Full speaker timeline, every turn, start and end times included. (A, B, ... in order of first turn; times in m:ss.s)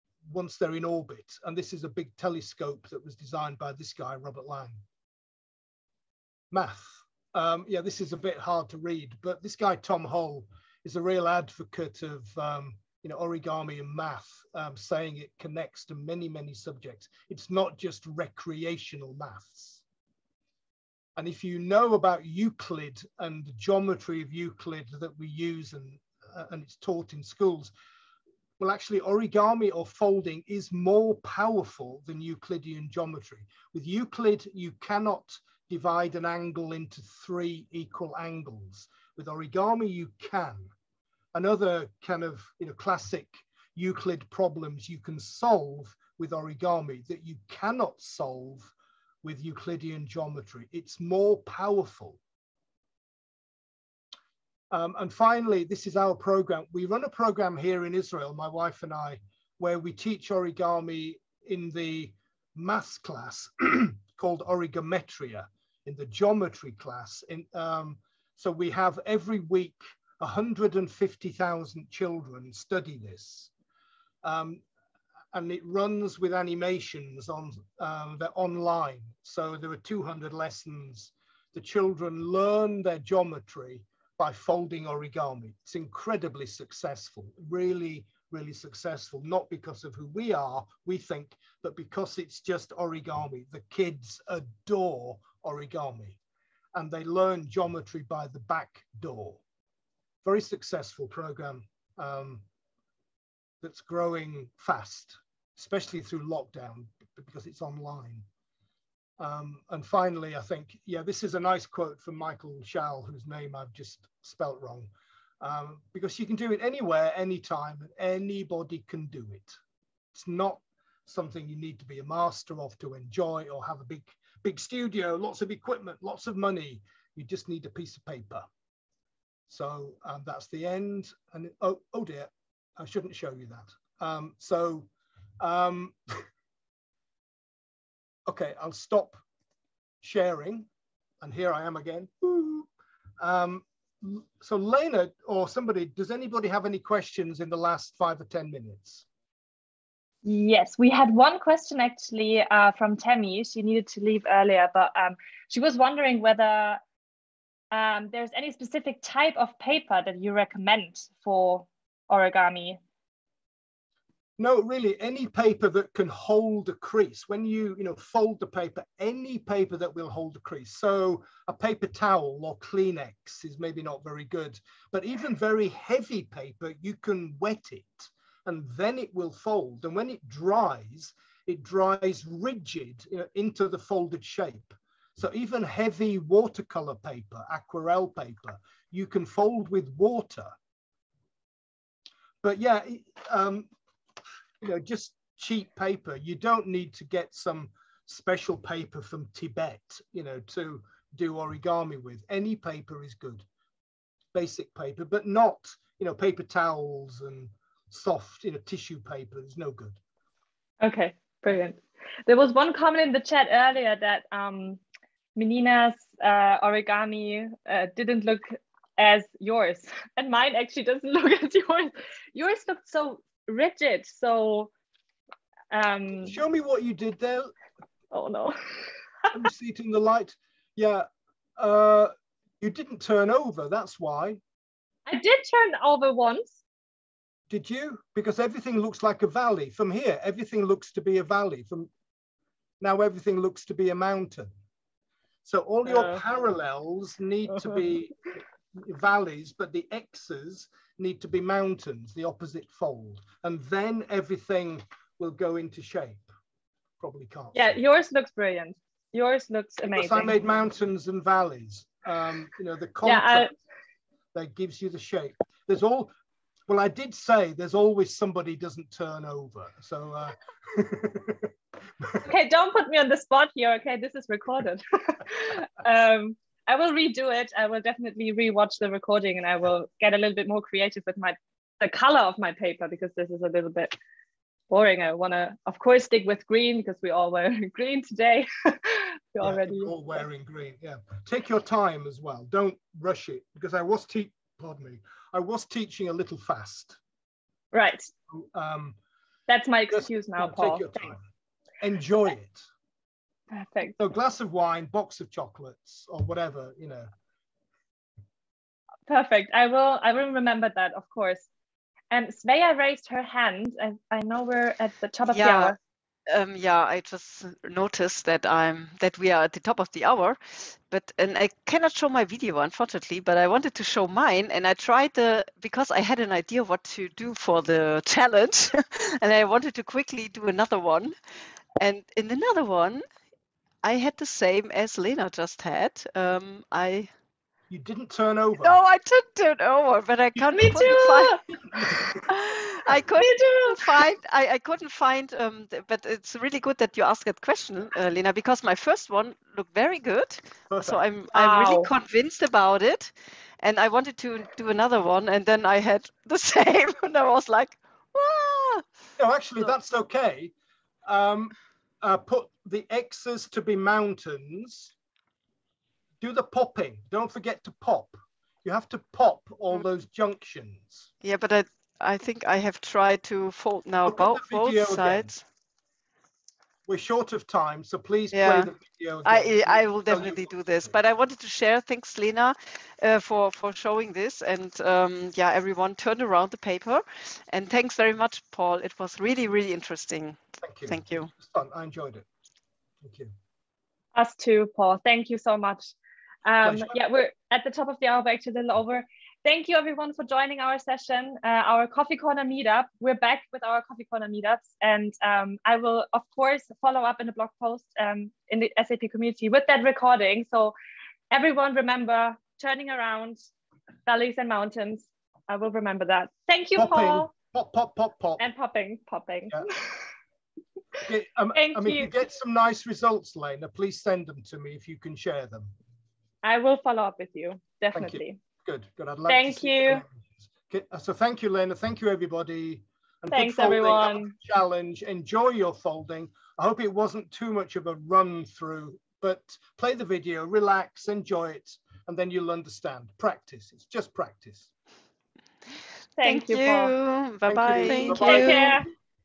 0:00.3-0:04.8 A
0:06.5-0:19.8 A
0:21.2-0:27.7 A
0:28.6-0:40.7 A
0:41.3-0:52.2 A
0:54.7-1:13.5 A
1:14.2-1:14.6 A
1:15.3-1:36.2 A
1:36.7-1:39.4 A
1:40.2-1:42.4 A
1:43.6-1:48.2 A
1:49.2-1:54.9 A
1:55.4-1:59.6 A
2:00.1-2:08.4 A
2:09.5-2:16.2 A
2:18.2-2:19.2 A
2:20.0-2:20.7 A
2:21.2-2:22.7 A
2:23.2-2:29.0 A
2:30.2-2:36.8 B
2:37.7-2:42.8 B
2:44.4-3:10.5 A
3:12.4-3:13.7 A
3:14.6-3:23.4 A
3:24.3-3:30.0 A
3:30.8-3:34.8 B
3:35.3-3:44.7 B
3:45.7-3:46.4 B
3:46.2-3:47.5 A
3:48.1-3:48.6 B
3:49.3-3:51.0 A
3:51.6-3:54.4 A
3:55.1-3:56.6 B
3:57.5-4:01.9 A
4:02.8-4:04.5 A
4:05.4-4:08.1 A
4:05.8-4:06.2 B
4:07.6-4:07.8 B
4:08.7-4:16.3 A
4:17.0-4:17.8 A
4:17.5-4:20.3 B
4:19.9-4:23.5 A
4:23.0-4:23.5 B
4:24.3-4:26.1 A
4:26.7-4:32.2 A
4:32.2-4:44.0 B
4:44.7-4:49.9 B
4:49.4-4:57.0 A
4:57.7-4:58.1 B
4:58.3-4:59.0 A
4:59.5-5:01.0 B
4:59.9-5:01.2 A
5:01.8-5:02.6 A
5:03.5-5:04.0 B
5:04.0-5:07.1 A
5:09.1-5:11.5 B
5:12.1-5:15.8 B
5:15.3-5:15.8 C
5:16.3-5:31.1 C
5:31.8-5:33.0 C
5:33.8-5:37.1 C
5:37.7-5:38.8 A
5:38.6-5:41.4 C
5:40.4-5:42.2 A
5:40.6-5:41.4 B
5:42.3-5:58.8 C
5:43.1-5:44.0 B
5:50.7-5:51.0 A
5:51.3-5:51.9 B
5:59.2-6:00.5 A
6:01.0-6:04.9 A
6:06.2-6:11.1 A
6:11.2-6:15.4 C
6:14.0-6:15.3 A
6:16.8-6:20.9 A
6:18.3-6:18.7 C
6:19.2-6:31.3 C
6:30.6-6:32.3 A
6:33.0-6:33.3 A
6:34.1-6:35.9 B
6:36.4-6:50.7 B
6:36.6-6:36.9 A
6:51.3-6:53.4 B
6:54.0-6:57.3 B
6:56.8-6:58.5 A
6:58.4-7:00.0 B
7:01.0-7:05.7 A
7:01.5-7:02.1 B
7:06.4-7:08.4 B
7:07.9-7:24.7 A
7:09.3-7:10.0 B
7:13.3-7:14.3 B
7:26.2-7:26.9 B
7:26.2-7:28.8 C
7:27.5-7:28.9 A
7:27.8-7:28.9 B